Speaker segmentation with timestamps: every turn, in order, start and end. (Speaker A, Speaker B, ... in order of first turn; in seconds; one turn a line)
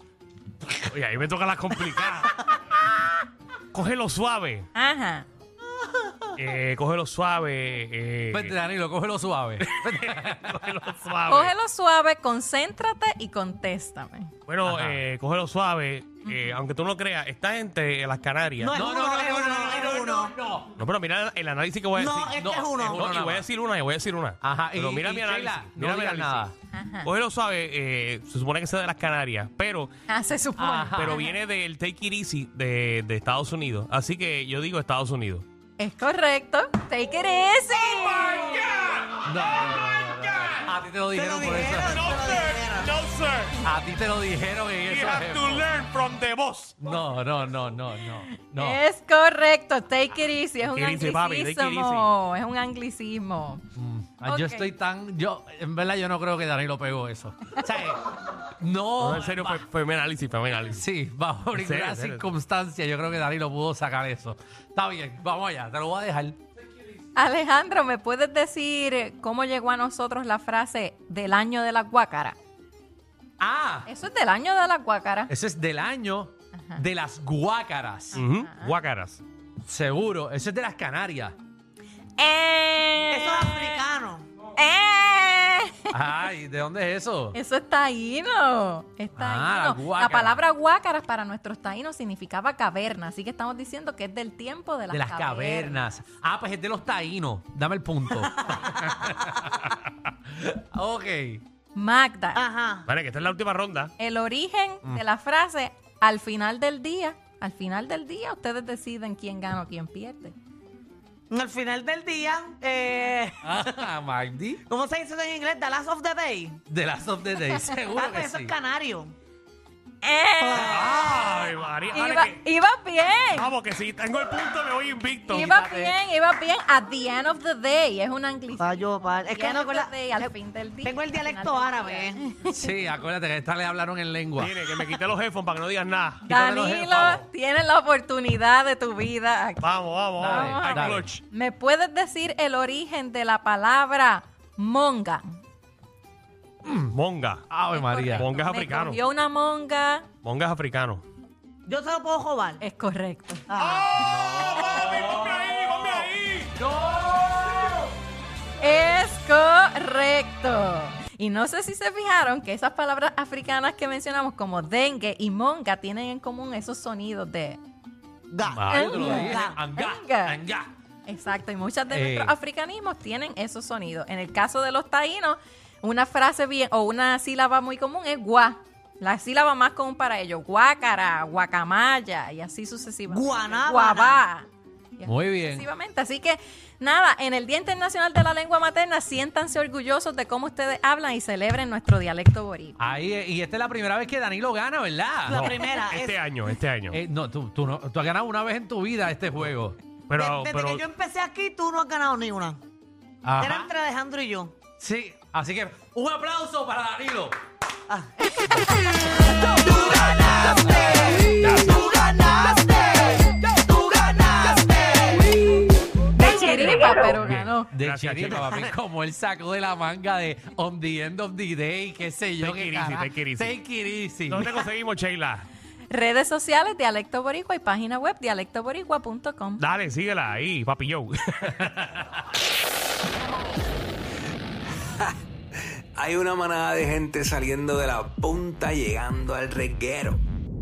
Speaker A: 0.7-2.5
Speaker A: 3.7-4.7
Speaker B: 4.7-5.3
Speaker A: 6.4-8.6
Speaker C: 8.3-10.7
Speaker A: 9.7-11.5
Speaker B: 11.3-14.3
Speaker A: 14.5-18.9
Speaker C: 14.6-15.0
Speaker B: 16.2-16.5
Speaker D: 18.6-20.3
Speaker C: 18.7-20.7
Speaker A: 19.8-20.1
Speaker A: 20.8-26.5
Speaker D: 21.9-23.1
Speaker C: 22.4-23.5
Speaker C: 24.4-26.5
Speaker B: 26.7-27.1
Speaker A: 27.0-29.9
Speaker B: 30.1-31.3
Speaker C: 30.6-31.2
Speaker A: 30.9-35.4
Speaker B: 35.8-38.8
Speaker A: 37.9-40.6
Speaker C: 39.2-42.0
Speaker D: 41.1-42.9
Speaker A: 41.9-43.6
Speaker C: 43.6-45.7
Speaker A: 44.8-46.8
Speaker C: 46.8-48.8
Speaker B: 48.3-53.6
Speaker A: 50.6-52.1
Speaker C: 53.8-58.0
Speaker B: 54.2-54.7
Speaker C: 58.6-59.6
Speaker A: 59.0-60.9
Speaker C: 60.7-66.4
Speaker A: 61.5-62.3
Speaker B: 67.1-72.4
Speaker C: 73.4-73.9
Speaker B: 73.9-75.3
Speaker C: 75.3-78.2
Speaker B: 76.5-76.8
Speaker B: 78.1-78.7
Speaker A: 78.1-79.2
Speaker C: 79.6-81.4
Speaker B: 82.2-83.8
Speaker D: 83.1-84.3
Speaker B: 84.6-86.2
Speaker C: 85.9-87.4
Speaker B: 87.3-95.8
Speaker C: 89.2-90.4
Speaker C: 94.9-99.7
Speaker C: 100.3-101.4
Speaker B: 101.8-102.4
Speaker D: 102.4-102.9
Speaker A: 102.9-103.9
Speaker B: 104.0-110.3
Speaker D: 111.3-113.6
Speaker C: 113.4-114.6
Speaker D: 114.7-116.6
Speaker C: 116.7-118.6
Speaker D: 117.9-119.1
Speaker B: 120.0-120.8
Speaker D: 120.4-121.1
Speaker A: 120.5-122.4
Speaker B: 121.9-123.5
Speaker A: 123.3-125.6
Speaker B: 125.3-132.7
Speaker D: 128.6-129.9
Speaker D: 130.8-132.2
Speaker C: 132.4-134.6
Speaker A: 134.4-137.2
Speaker B: 136.2-139.7
Speaker C: 136.3-137.0
Speaker A: 139.6-141.2
Speaker C: 140.2-141.1
Speaker B: 140.2-145.4
Speaker C: 146.6-146.9
Speaker A: 146.9-147.4
Speaker C: 147.5-148.3
Speaker B: 147.7-150.1
Speaker A: 148.1-149.0
Speaker A: 150.2-151.0
Speaker D: 151.7-152.6
Speaker B: 152.6-153.4
Speaker D: 153.5-153.8
Speaker A: 153.6-156.6
Speaker C: 154.0-157.8
Speaker B: 158.6-167.6
Speaker D: 168.3-169.6
Speaker C: 168.4-170.7
Speaker B: 168.7-170.4
Speaker B: 171.1-192.8
Speaker C: 171.9-172.4
Speaker D: 183.1-184.2
Speaker C: 185.0-185.7
Speaker C: 192.8-195.6
Speaker D: 195.3-196.2
Speaker A: 195.3-197.0
Speaker C: 196.9-199.8
Speaker A: 200.1-200.9
Speaker D: 200.2-202.6
Speaker C: 203.2-203.7
Speaker D: 203.4-204.5
Speaker C: 204.8-207.4
Speaker D: 209.4-215.3
Speaker B: 216.2-217.7
Speaker D: 216.2-216.7
Speaker A: 216.9-218.6
Speaker C: 217.7-224.5
Speaker A: 222.4-223.5
Speaker A: 224.3-225.5
Speaker B: 225.9-229.6
Speaker A: 229.6-231.9
Speaker E: 235.9-240.2